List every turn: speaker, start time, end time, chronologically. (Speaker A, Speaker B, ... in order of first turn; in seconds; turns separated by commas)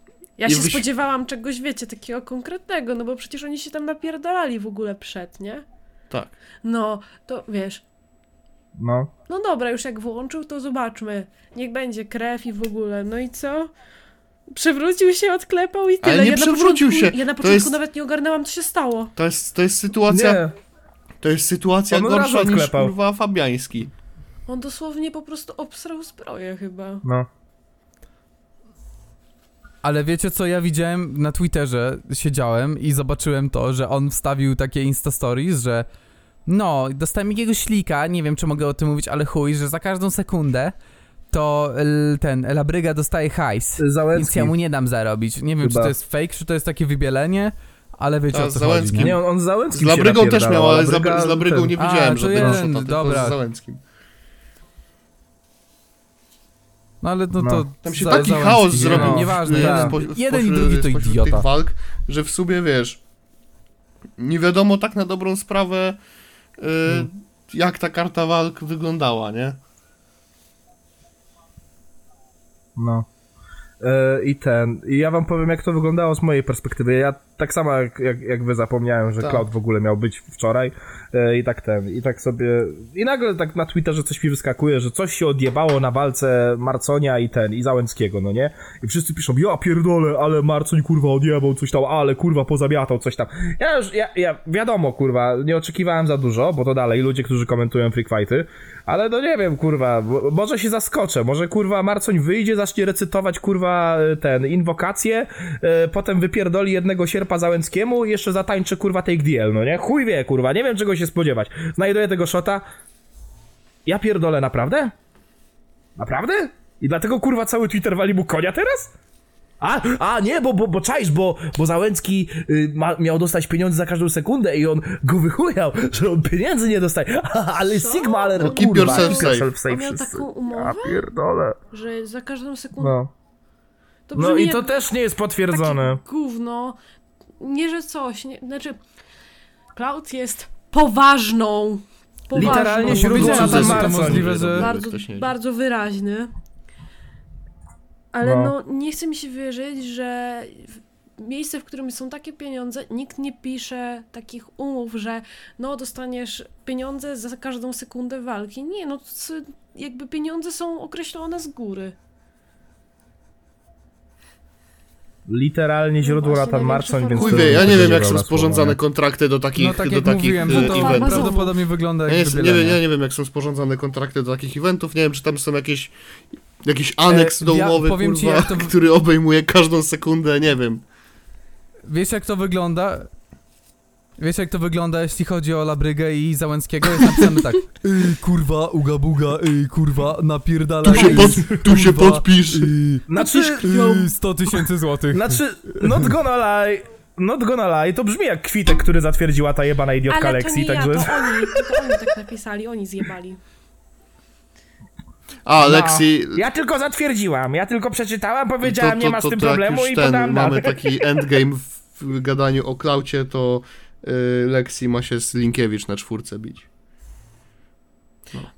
Speaker A: 0.4-5.7, Speaker B: 0.5-0.8, Speaker A: 6.6-7.8, Speaker C: 8.8-9.1, Speaker A: 9.3-13.7, Speaker A: 14.5-19.1, Speaker B: 16.0-17.7, Speaker B: 19.2-20.4, Speaker C: 20.1-20.5, Speaker B: 21.2-23.9, Speaker C: 21.9-22.9, Speaker A: 24.5-27.0, Speaker D: 29.8-35.9, Speaker D: 36.5-40.7, Speaker D: 41.3-49.2, Speaker C: 43.8-44.5, Speaker C: 45.6-46.0, Speaker B: 48.3-49.2, Speaker C: 49.0-51.7, Speaker B: 49.7-53.8, Speaker D: 51.8-53.4, Speaker C: 52.3-52.6, Speaker D: 57.0-61.5, Speaker C: 57.4-60.0, Speaker B: 57.8-63.0, Speaker B: 64.2-66.0, Speaker B: 66.6-69.6, Speaker C: 72.8-73.1, Speaker C: 73.8-112.6, Speaker B: 79.2-79.5, Speaker C: 113.9-114.9, Speaker C: 116.0-118.9, Speaker C: 119.6-131.6, Speaker A: 127.7-131.1, Speaker B: 128.4-129.5, Speaker A: 131.7-132.9, Speaker C: 132.8-133.1, Speaker A: 134.1-134.8, Speaker C: 134.2-136.0, Speaker A: 135.5-136.8, Speaker A: 137.4-138.8, Speaker A: 139.7-146.3, Speaker C: 142.3-144.3, Speaker B: 142.4-145.3, Speaker D: 142.7-144.7, Speaker A: 148.1-161.9, Speaker C: 148.2-148.5, Speaker C: 165.3-168.8, Speaker A: 166.0-168.2, Speaker B: 167.2-171.3, Speaker D: 169.6-172.8, Speaker A: 170.4-171.5, Speaker B: 172.1-175.9, Speaker B: 176.6-180.8, Speaker D: 177.1-178.7, Speaker D: 181.9-183.1, Speaker D: 184.2-195.4, Speaker B: 190.8-192.7, Speaker C: 190.9-191.8, Speaker C: 193.1-194.0, Speaker A: 193.2-194.1, Speaker C: 195.1-201.3, Speaker A: 200.1-203.4, Speaker B: 205.4-206.4, Speaker C: 205.6-211.1, Speaker B: 208.6-216.7